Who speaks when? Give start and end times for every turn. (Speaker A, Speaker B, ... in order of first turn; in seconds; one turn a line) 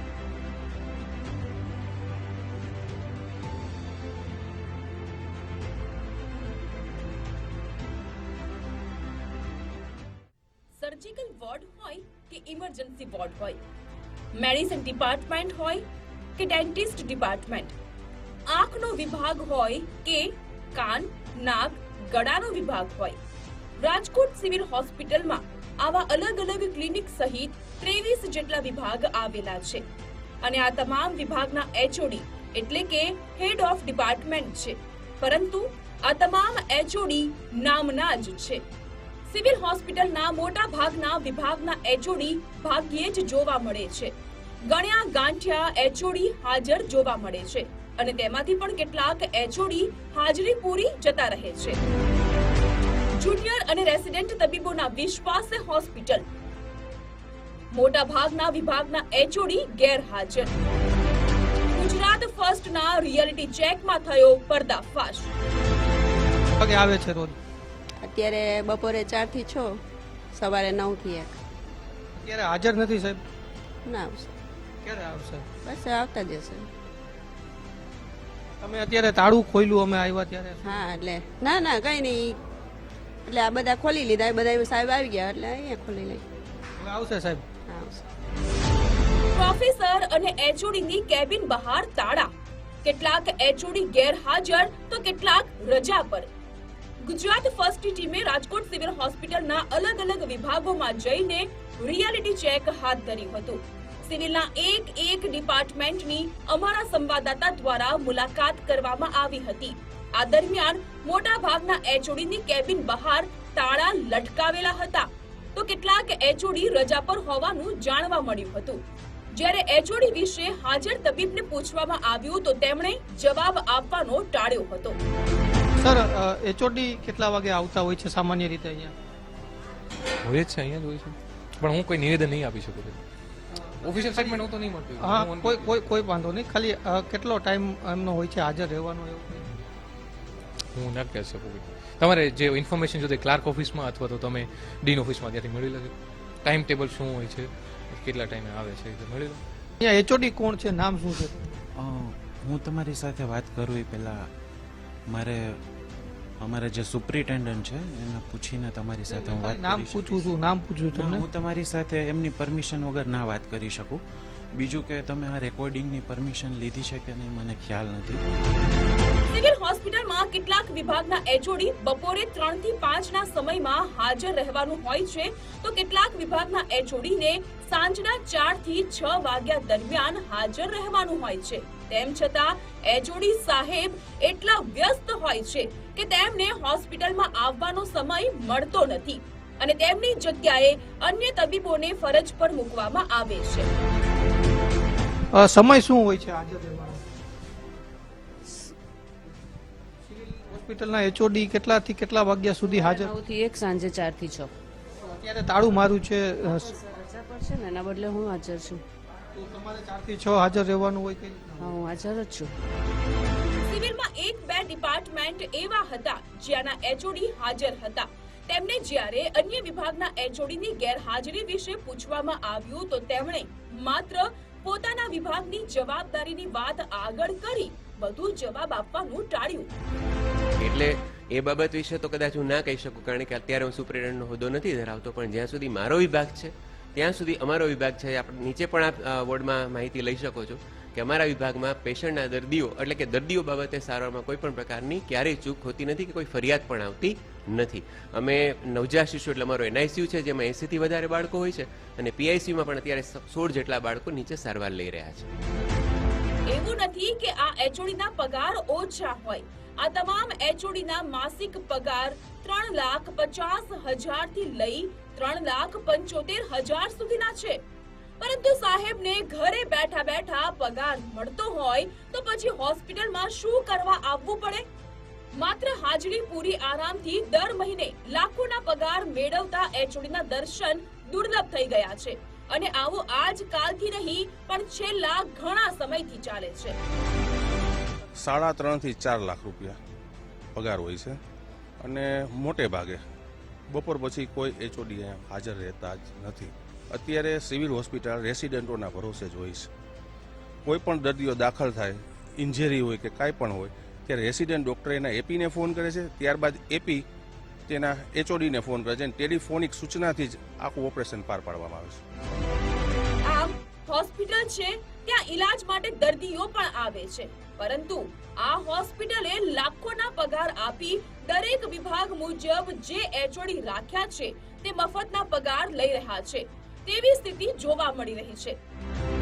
Speaker A: 10.8-13.6
Speaker A: 14.3-15.8
Speaker A: 16.4-17.7
Speaker A: 18.5-23.2
Speaker A: 23.8-29.8
Speaker A: 30.4-38.6
Speaker A: 39.3-44.1
Speaker A: 44.7-51.8
Speaker A: 53.2-56.2
Speaker A: 57.7-60.6
Speaker A: 61.7-65.3
Speaker B: 66.6-67.3
Speaker C: 68.0-69.8
Speaker C: 70.3-71.3
Speaker B: 72.2-73.2
Speaker C: 73.8-74.3
Speaker B: 74.8-75.5
Speaker C: 75.6-76.7
Speaker B: 78.6-80.9
Speaker C: 80.6-82.4
Speaker C: 83.2-86.2
Speaker B: 86.8-87.4
Speaker C: 87.7-88.0
Speaker A: 89.3-92.3
Speaker A: 92.8-96.3
Speaker A: 97.0-118.8
Speaker A: 119.3-125.0
Speaker B: 125.8-128.9
Speaker D: 130.2-133.0
Speaker D: 133.8-136.0
Speaker B: 133.8-134.4
Speaker B: 135.0-139.4
Speaker D: 140.7-149.4
Speaker B: 149.8-151.6
Speaker E: 151.8-154.3
Speaker E: 155.1-155.6
Speaker E: 156.4-160.3
Speaker B: 159.1-161.2
Speaker E: 160.9-164.0
Speaker E: 164.5-168.2
Speaker A: 169.3-193.7
Speaker B: 195.3-197.0
Speaker B: 200.1-203.1
Speaker F: 202.6-204.5
Speaker B: 205.1-206.7
Speaker F: 206.6-208.8
Speaker B: 209.3-211.7
Speaker F: 211.6-212.5
Speaker A: 213.6-229.7
Speaker G: 230.6-255.2
Speaker A: 256.5-267.6
Speaker A: 268.2-274.6
Speaker A: 275.4-286.8
Speaker H: 288.2-289.8
Speaker H: 290.5-291.2
Speaker H: 291.8-293.0
Speaker H: 293.7-299.7
Speaker H: 300.6-307.0
Speaker H: 307.7-312.0
Speaker A: 313.3-328.6